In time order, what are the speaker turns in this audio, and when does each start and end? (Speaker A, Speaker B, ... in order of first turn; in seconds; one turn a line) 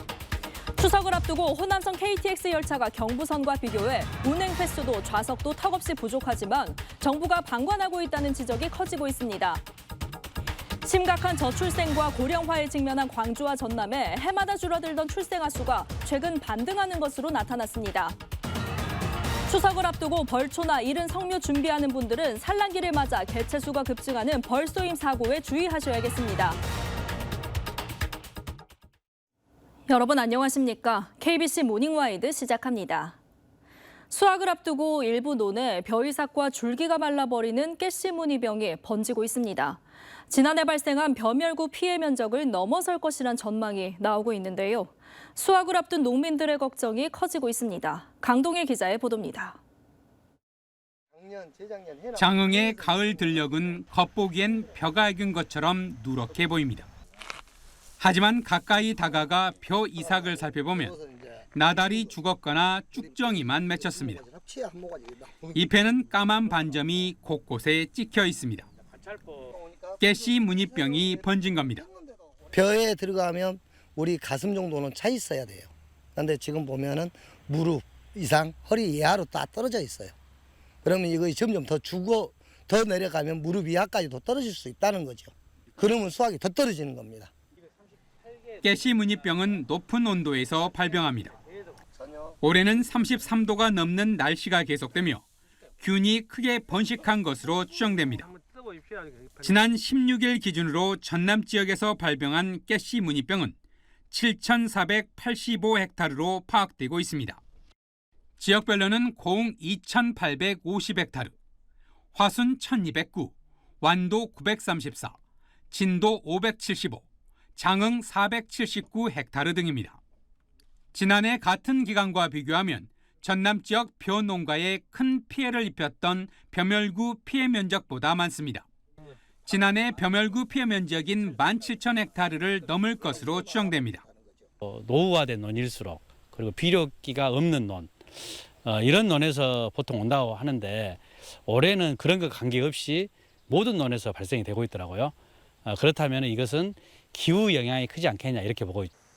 Speaker A: 0.8-9.6
Speaker A: 10.8-18.2
Speaker A: 19.5-26.6
Speaker A: 29.9-33.2
Speaker A: 34.1-49.6
Speaker B: 51.1-52.2
Speaker C: 52.1-56.9
Speaker C: 58.0-61.0
Speaker B: 61.0-61.2
Speaker C: 61.5-64.2
Speaker B: 64.4-65.4
Speaker C: 65.5-68.7
Speaker C: 70.0-71.9
Speaker B: 72.5-80.2
Speaker B: 80.8-87.3
Speaker C: 88.6-91.3
Speaker B: 92.0-92.3
Speaker C: 92.4-95.2
Speaker C: 95.8-98.3
Speaker C: 99.4-103.5
Speaker C: 104.1-107.4
Speaker C: 108.4-111.3
Speaker C: 112.1-115.2
Speaker C: 115.7-117.0
Speaker C: 117.6-120.0
Speaker C: 120.9-128.7
Speaker C: 129.5-134.0
Speaker D: 134.6-138.0
Speaker D: 138.6-145.1
Speaker D: 145.7-148.9